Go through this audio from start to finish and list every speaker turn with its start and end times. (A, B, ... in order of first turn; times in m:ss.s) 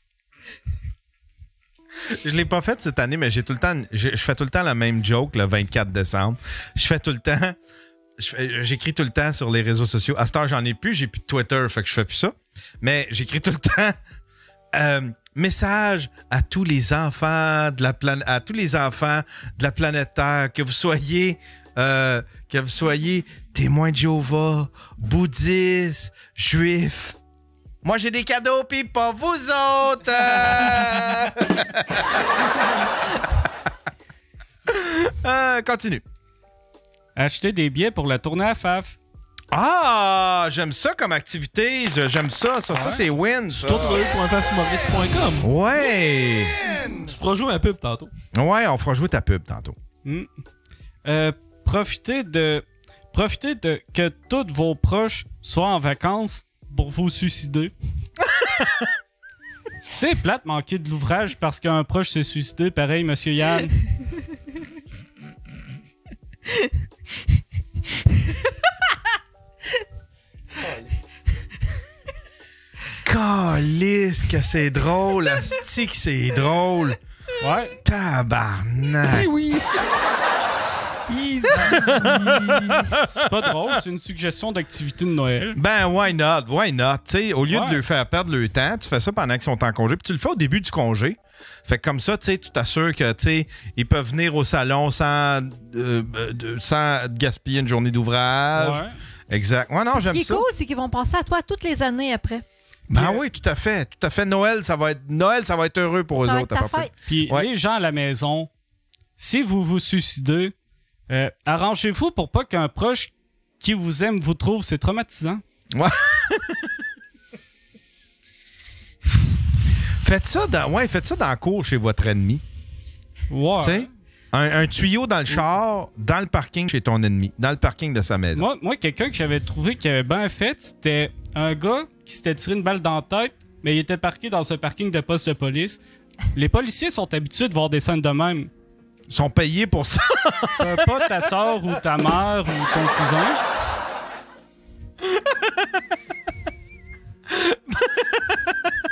0:02.1-0:07.6 A
0:08.2-0:14.0 A
0:14.7-0:27.2 A
0:27.8-0:32.3 A
0:34.7-0:36.0 A
0:37.2-0:39.0 B
0:39.5-0:44.0 A
0:42.7-0:43.0 B
0:43.5-0:45.5 C
0:45.4-0:46.7 A
0:46.9-0:48.1 C
0:48.3-0:49.8 A
0:50.0-0:50.3 B
0:51.0-0:57.7 B
0:58.4-0:58.9 A
0:59.9-1:03.8 B
1:13.0-1:17.0 A
1:17.4-1:17.8 B
1:17.8-1:19.3 A
1:19.0-1:19.8 C
1:21.1-1:22.9 C
1:21.5-1:23.0 A
1:23.0-1:25.6 B
1:25.6-1:40.5 A
1:27.5-1:27.8 B
1:38.6-1:39.0 B
1:39.9-1:42.4 D
1:42.9-1:47.5 A
1:42.9-1:43.2 B
1:46.2-1:46.9 D
1:47.1-1:48.5 B
1:49.2-1:50.6 B
1:51.1-1:55.4 B
1:55.7-1:56.7 A
2:00.0-2:02.4 A
2:03.3-2:03.9 B
2:03.6-2:08.4 A
2:08.4-2:15.8 B
2:16.3-2:18.5 B
2:19.1-2:20.8 A
2:20.6-2:23.4 B
2:27.3-2:28.4 A